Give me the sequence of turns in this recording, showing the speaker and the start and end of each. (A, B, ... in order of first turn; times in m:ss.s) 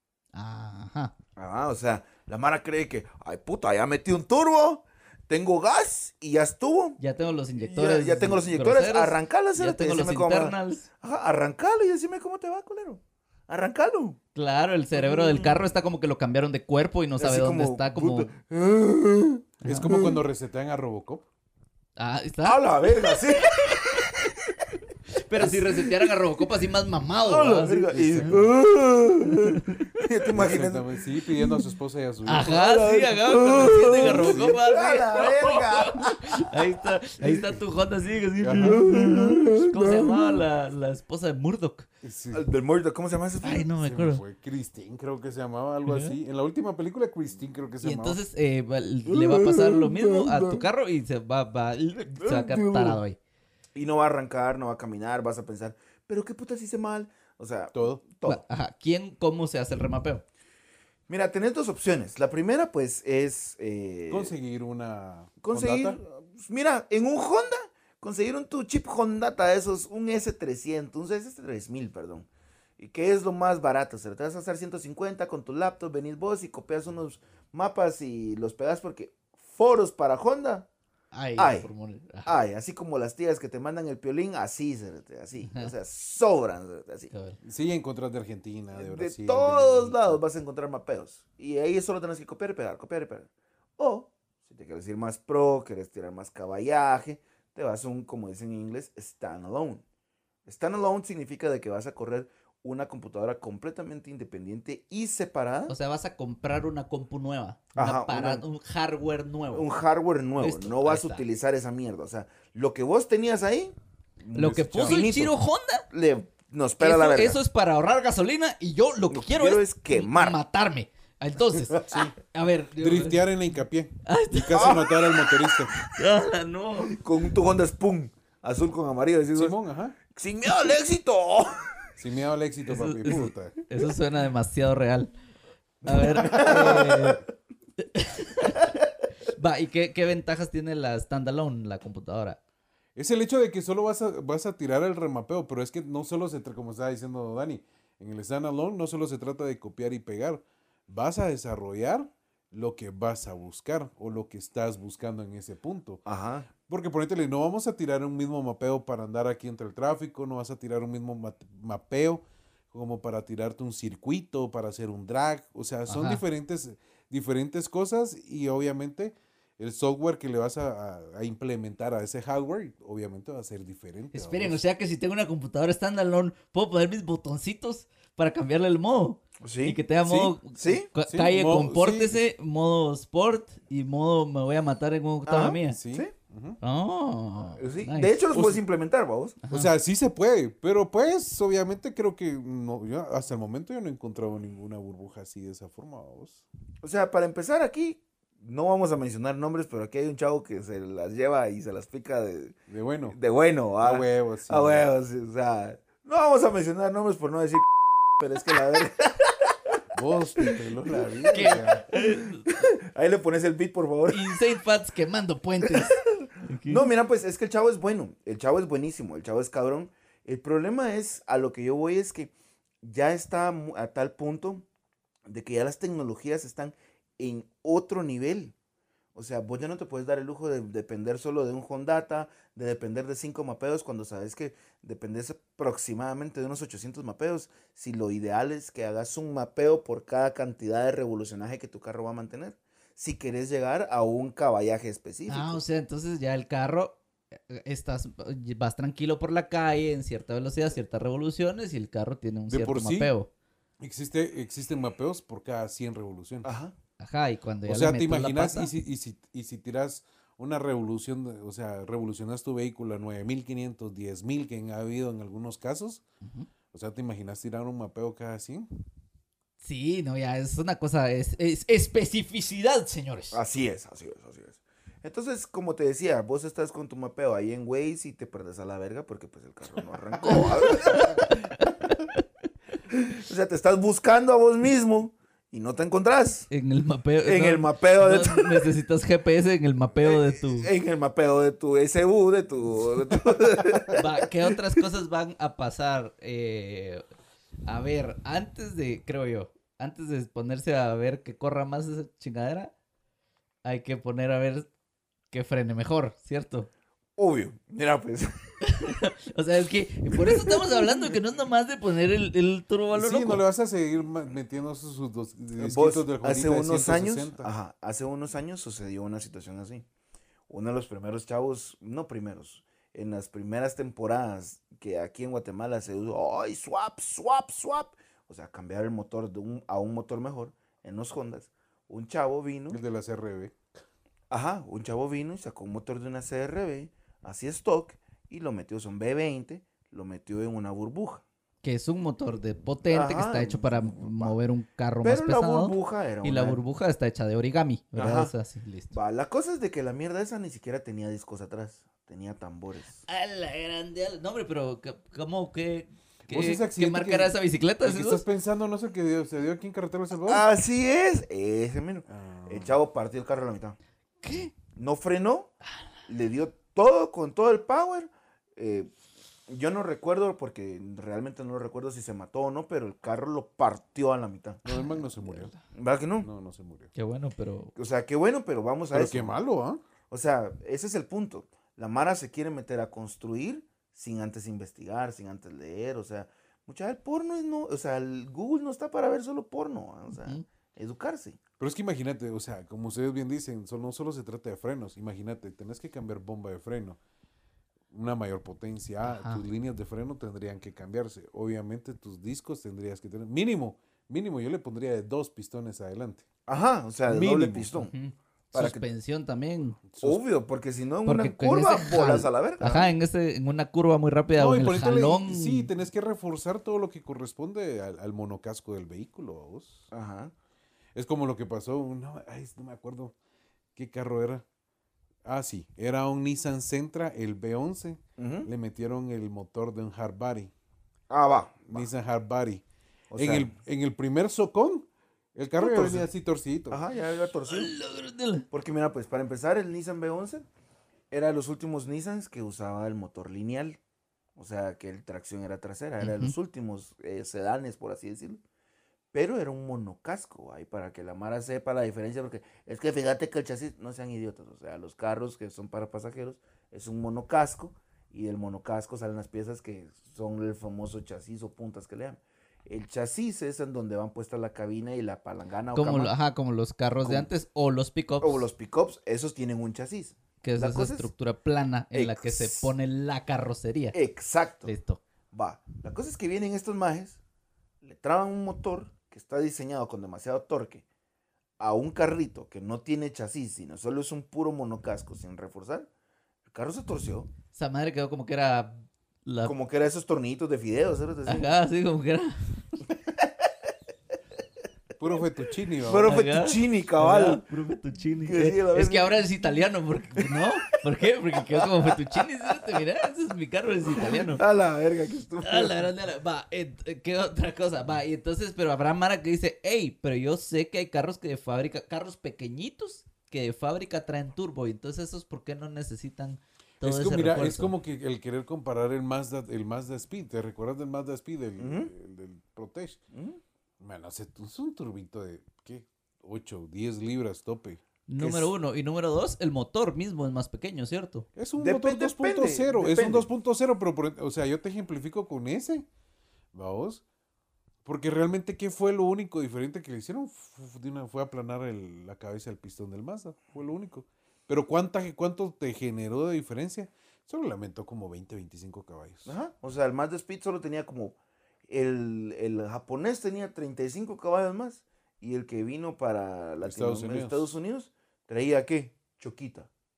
0:00.3-0:01.1 A
0:01.4-0:07.0 B
0:07.0-0:10.9 A
0:07.6-0:14.2 B
0:14.4-0:18.3 A
0:15.0-0:15.6 B
0:17.2-0:20.2 B
0:19.6-0:20.0 A
0:19.6-0:21.3 C
0:22.0-0:24.1 A
0:22.4-0:24.5 B
0:25.2-0:28.5 A
0:25.3-0:26.2 B
0:27.2-0:31.7 B
0:27.9-0:28.5 C
0:29.4-0:29.9 A
0:30.3-0:32.5 C
0:32.3-0:41.9 A
0:32.4-0:36.6 B
0:34.0-0:34.6 C
0:37.2-0:37.5 B
0:38.4-0:38.8 C
0:38.6-0:40.4 B
0:42.0-0:42.5 C
0:42.3-0:43.7 B
0:43.4-0:44.2 A
0:43.8-0:48.2 C
0:45.9-0:46.2 A
0:47.8-0:53.2 A
0:49.1-0:50.7 B
0:52.1-0:53.0 B
0:53.8-0:58.4 B
0:57.7-0:58.0 C
0:58.2-1:00.2 A
1:01.1-1:04.3 B
1:04.1-1:06.0 C
1:05.4-1:12.3 B
1:12.8-1:20.7 B
1:21.1-1:22.3 A
1:21.4-1:21.7 B
1:22.2-1:27.1 B
1:27.1-1:27.4 A
1:27.4-1:30.2 C
1:28.7-1:39.8 B
1:40.5-1:45.8 B
1:45.7-1:49.7 A
1:47.8-1:48.4 B
1:49.5-1:55.4 B
1:50.4-1:51.3 A
1:54.3-1:55.8 A
1:54.4-1:55.1 C
1:55.9-1:57.4 B
1:56.8-2:03.2 A
1:59.1-2:00.4 B
2:01.8-2:02.2 C
2:02.8-2:05.7 C
2:04.1-2:04.8 A
2:04.5-2:05.5 B
2:05.9-2:07.0 A
2:06.9-2:09.6 B
2:09.4-2:10.0 C
2:10.1-2:11.9 B
2:12.0-2:13.5 C
2:12.7-2:15.1 A
2:15.8-2:17.2 B
2:15.8-2:17.2 A
2:17.8-2:18.7 A
2:19.3-2:22.4 A
2:23.0-2:36.0 C
2:36.1-2:36.5 B
2:36.6-2:54.6 C
2:45.9-2:46.2 A
2:54.1-3:05.8 A
2:59.4-2:59.8 B
3:00.1-3:00.4 C
3:00.6-3:00.9 B
3:01.1-3:02.2 C
3:05.3-3:06.1 B
3:05.7-3:06.6 C
3:06.6-3:08.3 A
3:07.6-3:09.4 B
3:08.3-3:08.6 C
3:09.4-3:09.7 A
3:09.5-3:16.4 C
3:16.8-3:22.6 B
3:22.7-3:23.2 C
3:23.1-3:29.8 B
3:23.8-3:24.9 C
3:29.9-3:31.8 C
3:30.4-3:34.4 B
3:31.3-3:32.5 A
3:34.1-3:36.9 A
3:35.6-3:44.6 B
3:45.3-3:48.5 B
3:49.2-4:05.6 B
4:05.3-4:13.3 A
4:12.5-4:13.1 C
4:13.8-4:16.5 C
4:16.4-4:16.7 B
4:17.0-4:18.7 A
4:17.7-4:26.0 C
4:26.2-4:26.5 A
4:26.7-4:28.7 C
4:29.6-4:33.4 A
4:33.3-4:41.4 B
4:40.2-4:42.2 A
4:42.9-4:46.5 B
4:46.5-4:50.7 A
4:47.2-4:48.7 B
4:50.0-4:54.5 B
4:54.0-4:57.0 A
4:57.6-5:02.7 A
5:03.6-5:04.7 A
5:05.3-5:06.7 A
5:07.2-5:08.3 B
5:08.6-5:13.4 A
5:10.1-5:10.9 B
5:12.9-5:17.5 C
5:15.6-5:19.8 B
5:20.5-5:32.8 B
5:32.7-5:33.6 C
5:34.3-5:41.2 B
5:41.6-5:49.0 A
5:42.9-5:44.4 B
5:45.0-5:46.6 B
5:48.0-5:48.3 B
5:48.9-5:53.0 B
5:53.1-5:58.2 A
5:56.3-6:00.5 C
6:00.2-6:03.8 B
6:02.1-6:02.8 C
6:04.2-6:04.5 A
6:04.7-6:05.5 B
6:06.1-6:08.9 B
6:09.5-6:14.7 B
6:14.7-6:15.5 C
6:14.7-6:15.6 A
6:15.6-6:16.3 B
6:16.2-6:16.9 C
6:17.0-6:17.7 A
6:17.8-6:19.4 B
6:18.9-6:19.8 C
6:20.1-6:31.4 B
6:30.1-6:30.4 A
6:31.6-6:37.0 C
6:37.9-6:46.3 C
6:39.0-6:39.4 A
6:46.5-6:47.9 B
6:47.1-6:47.8 C
6:47.9-6:49.8 A
6:48.5-6:48.8 B
6:49.9-6:50.2 C
6:50.0-6:52.9 B
6:51.1-6:55.7 A
6:54.4-6:59.9 C
6:59.9-7:00.3 B
7:01.0-7:03.2 C
7:03.8-7:04.4 C
7:05.2-7:10.5 C
7:08.2-7:08.5 B
7:11.1-7:11.9 B
7:11.7-7:12.6 C
7:13.1-7:13.5 B
7:13.2-7:16.8 C
7:15.6-7:16.1 B
7:16.7-7:17.7 B
7:17.5-7:18.5 A
7:18.5-7:20.5 B
7:21.1-7:23.8 B
7:24.4-7:28.4 B
7:26.0-7:26.3 A
7:29.1-7:46.1 B
7:45.8-7:48.5 A
7:47.0-7:47.3 B
7:48.2-7:51.1 B
7:50.4-7:54.0 A
7:51.9-7:52.7 B
7:53.9-7:54.7 B
7:54.6-7:55.0 A
7:55.3-7:57.2 B
7:57.8-8:00.8 B
8:01.6-8:05.9 B
8:06.5-8:07.3 B
8:07.5-8:09.5 A
8:09.4-8:11.5 B
8:11.3-8:12.8 A
8:15.0-8:16.1 C
8:15.8-8:17.4 B
8:16.0-8:24.4 A
8:18.2-8:19.2 B
8:21.5-8:22.2 B
8:23.9-8:25.9 B
8:25.4-8:37.7 A
8:36.8-8:43.0 C
8:41.6-8:41.9 B
8:43.1-8:43.4 B
8:43.8-8:47.8 C
8:48.1-8:51.3 A
8:48.2-8:48.5 B
8:51.4-8:55.9 C
8:51.6-8:53.3 B
8:56.5-8:57.0 C
8:57.8-9:09.3 C
9:09.3-9:11.2 B
9:11.7-9:19.7 B
9:16.6-9:17.5 C